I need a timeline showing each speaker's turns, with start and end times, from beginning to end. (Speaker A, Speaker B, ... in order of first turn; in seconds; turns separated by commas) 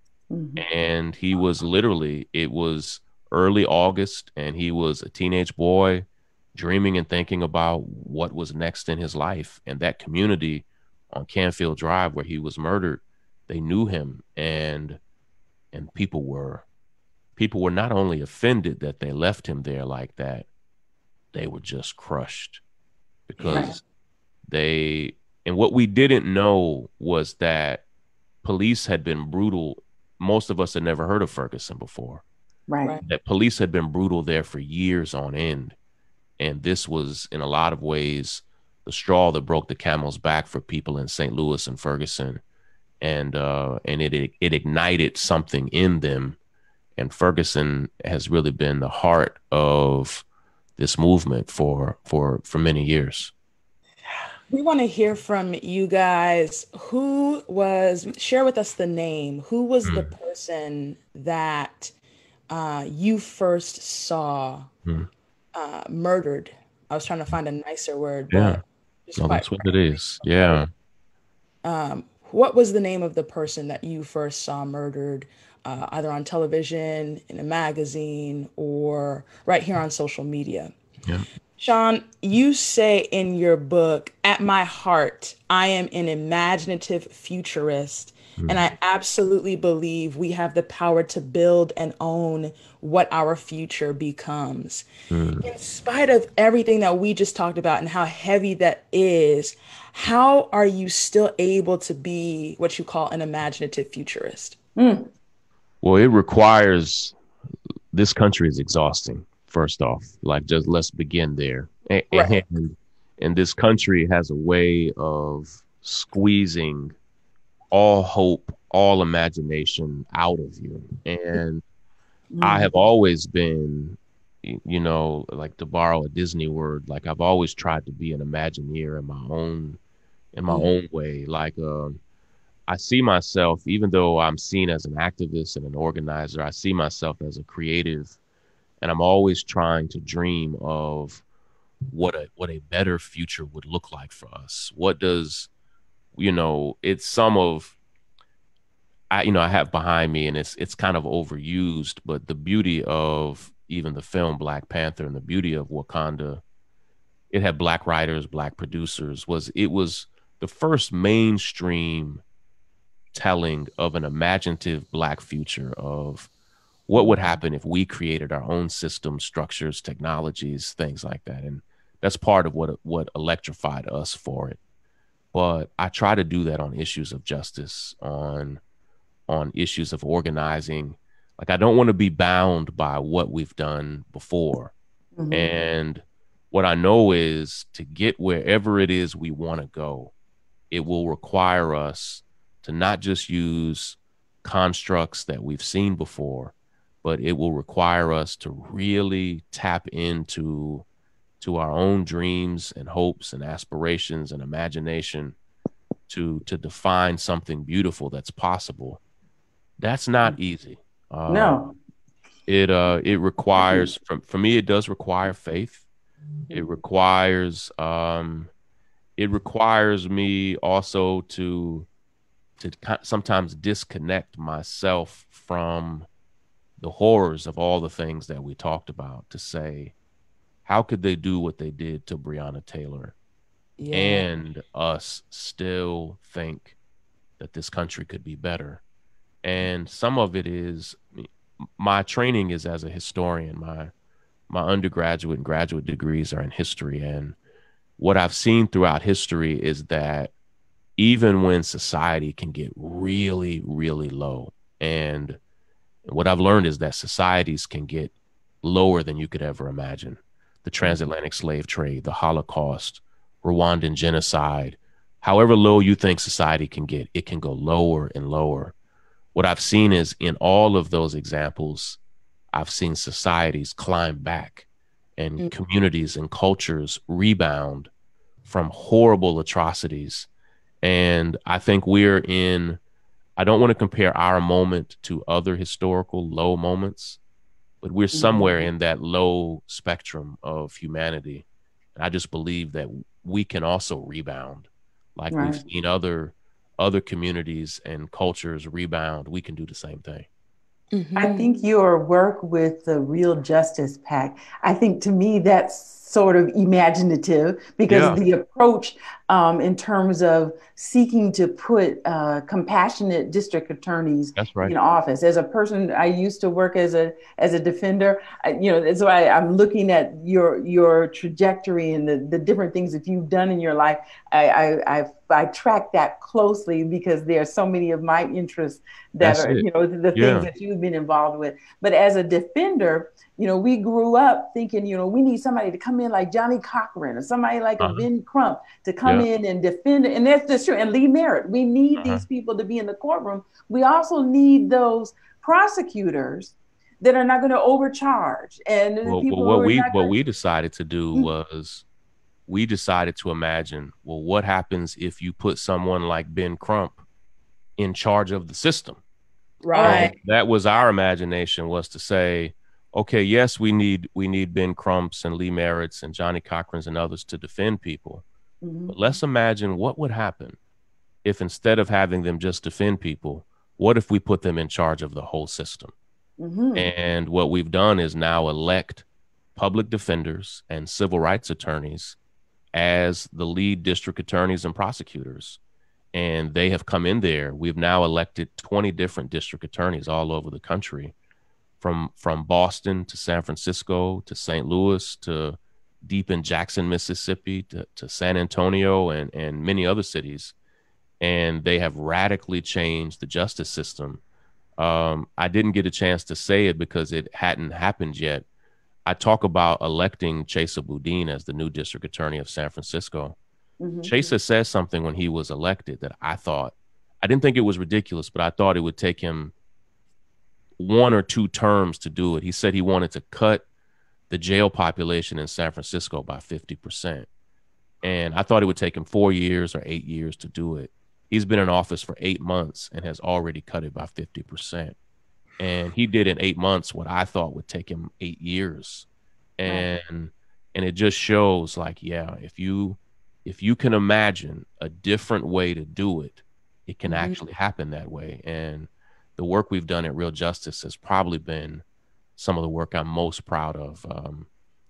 Speaker A: 0.3-0.6, Speaker B: 0.6-15.0, Speaker B: 15.7-16.6, Speaker B: 17.4-20.5, Speaker B: 21.3-22.6, Speaker B: 23.3-23.8, Speaker C: 23.4-23.8, Speaker B: 24.5-27.8, Speaker B: 28.4-32.2, Speaker A: 32.7-33.0, Speaker B: 33.0-35.8, Speaker B: 36.4-42.4, Speaker B: 43.0-46.4, Speaker B: 47.0-50.2, Speaker B: 50.8-53.3, Speaker C: 54.5-61.9, Speaker C: 62.5-64.7, Speaker C: 65.5-70.7, Speaker B: 68.3-68.6, Speaker B: 69.2-70.7, Speaker C: 71.6-80.7, Speaker C: 81.6-94.8, Speaker B: 95.1-95.4, Speaker C: 95.4-104.5, Speaker A: 104.8-105.1, Speaker B: 105.8-107.1, Speaker B: 107.9-116.9, Speaker C: 112.1-112.4, Speaker B: 117.7-121.6, Speaker A: 122.3-122.7, Speaker B: 122.4-129.8, Speaker B: 130.3-132.0, Speaker B: 132.7-138.2, Speaker B: 138.8-141.2, Speaker B: 141.9-145.5, Speaker B: 146.2-147.8, Speaker B: 149.1-156.4, Speaker B: 157.3-162.2, Speaker B: 163.1-166.3, Speaker B: 166.9-174.6, Speaker B: 175.3-178.6, Speaker B: 179.3-184.7, Speaker A: 185.2-185.5, Speaker B: 185.3-190.1, Speaker B: 190.7-200.8, Speaker B: 201.4-205.3, Speaker B: 206.1-209.0, Speaker B: 209.8-211.7, Speaker A: 211.3-211.7, Speaker B: 212.5-215.8, Speaker A: 213.6-213.9, Speaker B: 216.5-218.5, Speaker B: 219.2-221.9, Speaker B: 222.6-226.1, Speaker B: 226.8-229.9, Speaker B: 230.7-233.1, Speaker C: 233.8-234.3, Speaker B: 233.9-236.7, Speaker B: 237.4-238.8, Speaker B: 239.4-243.9, Speaker B: 244.5-247.3, Speaker B: 248.0-250.3, Speaker B: 251.0-255.4, Speaker B: 256.0-268.7, Speaker B: 269.3-272.0, Speaker B: 272.5-274.6, Speaker B: 275.2-277.9, Speaker B: 278.4-280.3, Speaker B: 280.8-282.8, Speaker B: 283.4-287.2, Speaker B: 287.8-300.3, Speaker A: 288.1-288.6, Speaker A: 295.3-295.6, Speaker C: 300.9-301.5, Speaker A: 301.1-350.1, Speaker B: 307.9-308.2, Speaker B: 314.4-314.7, Speaker B: 329.2-330.5, Speaker B: 337.8-338.1, Speaker B: 341.9-342.2, Speaker B: 349.0-351.8, Speaker B: 352.5-357.0, Speaker B: 357.8-359.0, Speaker C: 359.6-360.1, Speaker A: 359.7-360.1, Speaker B: 359.8-368.2, Speaker A: 368.6-369.0, Speaker B: 368.9-370.6, Speaker B: 371.2-375.9, Speaker A: 376.4-376.9, Speaker B: 376.7-379.0, Speaker B: 379.6-382.2, Speaker B: 382.7-385.6, Speaker B: 386.1-391.1, Speaker B: 391.8-400.5, Speaker B: 401.2-404.2, Speaker B: 404.8-408.4, Speaker B: 409.1-413.4, Speaker A: 413.8-414.3, Speaker B: 414.0-419.5, Speaker B: 420.8-423.6, Speaker B: 424.3-427.3, Speaker B: 428.0-434.9, Speaker B: 435.6-439.1, Speaker B: 439.6-451.8, Speaker C: 447.1-447.4, Speaker B: 452.4-454.5